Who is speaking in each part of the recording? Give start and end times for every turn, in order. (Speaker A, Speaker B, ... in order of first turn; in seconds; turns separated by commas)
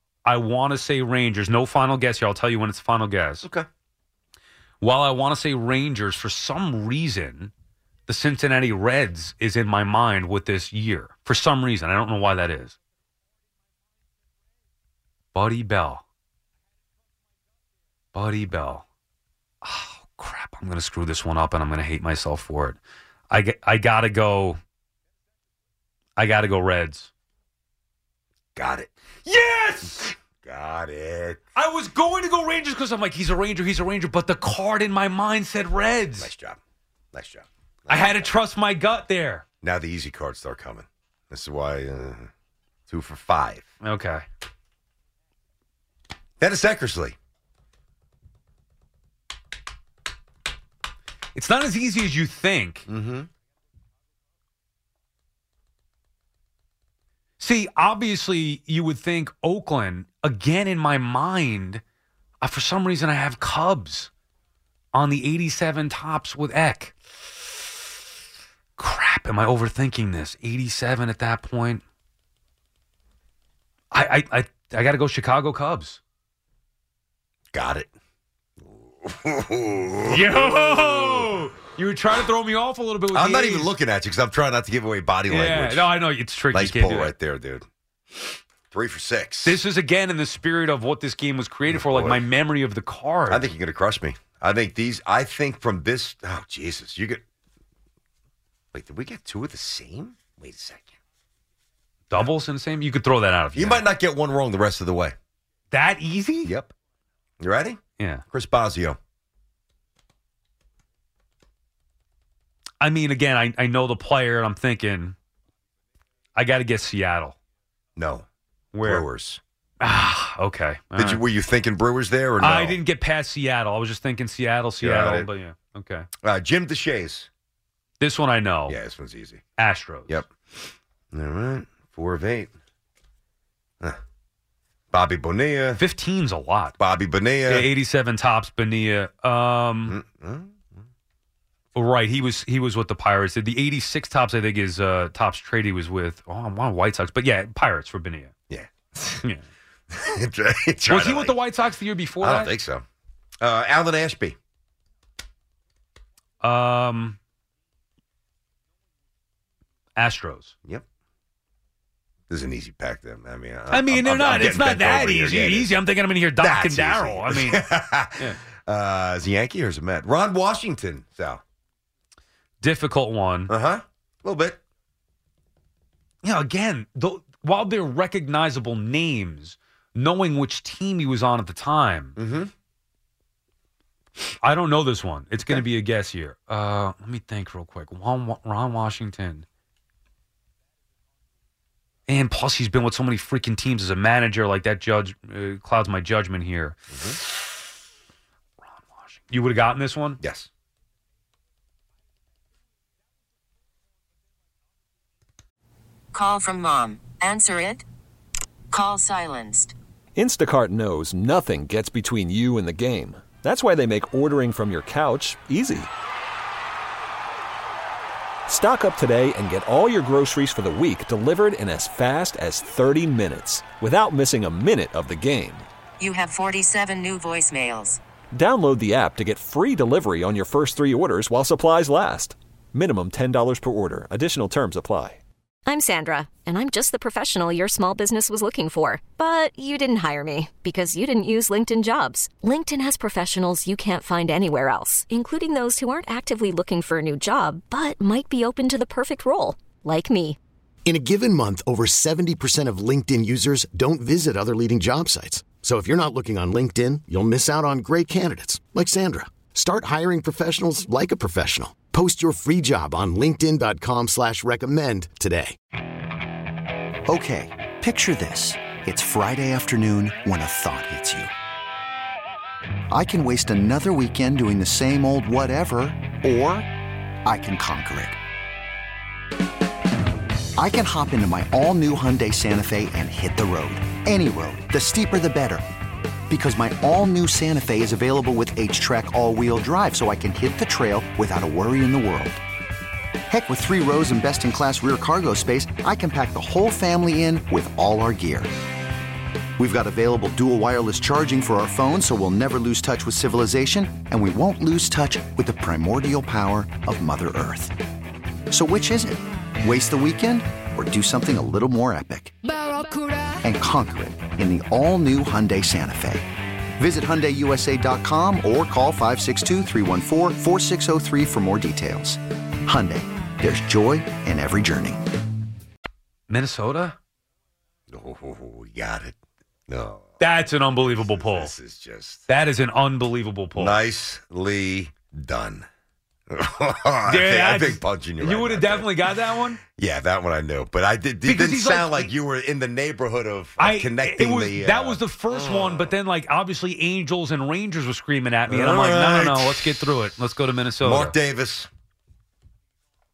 Speaker A: 0.2-3.5, Speaker A: 4.8-7.5, Speaker A: 8.1-12.8, Speaker A: 15.3-16.0, Speaker A: 18.1-18.8, Speaker A: 19.6-24.6, Speaker A: 26.2-27.1, Speaker B: 28.6-28.9, Speaker A: 29.2-30.1, Speaker B: 29.9-31.4, Speaker A: 31.5-36.3, Speaker B: 36.2-36.6, Speaker B: 37.1-38.3, Speaker A: 37.9-39.4, Speaker B: 39.6-42.3, Speaker B: 42.9-43.7, Speaker A: 43.8-44.2, Speaker B: 46.4-47.1, Speaker A: 51.3-52.9, Speaker B: 52.9-53.3, Speaker A: 57.4-61.8, Speaker A: 62.4-64.1, Speaker A: 64.9-66.9, Speaker A: 68.8-71.8, Speaker A: 73.9-76.0, Speaker B: 77.5-77.9, Speaker B: 78.6-81.3, Speaker A: 80.0-83.7, Speaker B: 83.1-85.9, Speaker A: 85.3-87.1, Speaker B: 86.5-87.6, Speaker B: 88.7-89.6, Speaker A: 89.4-93.5, Speaker B: 91.7-92.2, Speaker B: 93.3-97.2, Speaker B: 98.7-100.9, Speaker A: 102.1-103.8, Speaker B: 103.5-105.1, Speaker A: 105.7-106.5, Speaker B: 106.4-106.7, Speaker B: 107.4-107.8, Speaker B: 108.3-109.0, Speaker A: 112.8-115.1, Speaker A: 116.3-117.3, Speaker B: 118.0-118.2, Speaker A: 118.7-119.0, Speaker B: 118.8-119.4, Speaker A: 119.8-121.2, Speaker B: 121.0-122.8, Speaker A: 122.4-126.1, Speaker B: 124.8-125.3, Speaker B: 126.2-127.3, Speaker A: 128.0-128.8, Speaker B: 128.7-129.4, Speaker A: 129.6-130.2, Speaker B: 130.1-132.5, Speaker B: 134.9-135.8, Speaker A: 135.8-136.8, Speaker B: 136.8-137.7, Speaker A: 137.5-140.0, Speaker B: 139.9-140.6, Speaker A: 141.7-148.3, Speaker B: 148.5-149.2, Speaker B: 149.9-151.4, Speaker A: 150.9-152.5, Speaker B: 152.2-152.8, Speaker B: 153.4-154.3, Speaker A: 156.4-157.2, Speaker A: 159.9-160.5, Speaker B: 162.3-165.8, Speaker A: 163.7-168.4, Speaker B: 166.4-171.4, Speaker A: 172.6-173.5, Speaker B: 173.5-174.6, Speaker A: 176.2-182.2, Speaker B: 182.2-182.5, Speaker A: 184.4-189.4, Speaker A: 192.1-196.8, Speaker B: 196.9-197.2, Speaker A: 198.7-200.2, Speaker B: 200.2-200.5, Speaker C: 206.1-207.8, Speaker C: 208.7-209.7, Speaker D: 210.2-215.9, Speaker D: 218.5-225.7, Speaker C: 226.0-228.0, Speaker D: 228.3-235.2, Speaker E: 235.7-250.4, Speaker F: 250.8-265.6, Speaker G: 267.1-271.3, Speaker G: 272.9-276.7, Speaker G: 277.2-278.2, Speaker G: 280.6-285.6, Speaker G: 286.3-292.4, Speaker G: 293.3-298.5, Speaker G: 299.6-307.7, Speaker G: 308.5-312.4, Speaker G: 313.4-325.1, Speaker A: 326.3-327.0, Speaker B: 327.9-329.1, Speaker B: 329.7-330.2, Speaker A: 330.2-331.5, Speaker B: 330.8-332.2, Speaker A: 332.3-333.7, Speaker B: 333.6-335.7, Speaker B: 336.3-345.9, Speaker A: 337.0-339.6, Speaker A: 341.2-342.1, Speaker A: 343.6-351.1, Speaker B: 348.5-349.8, Speaker B: 350.8-351.7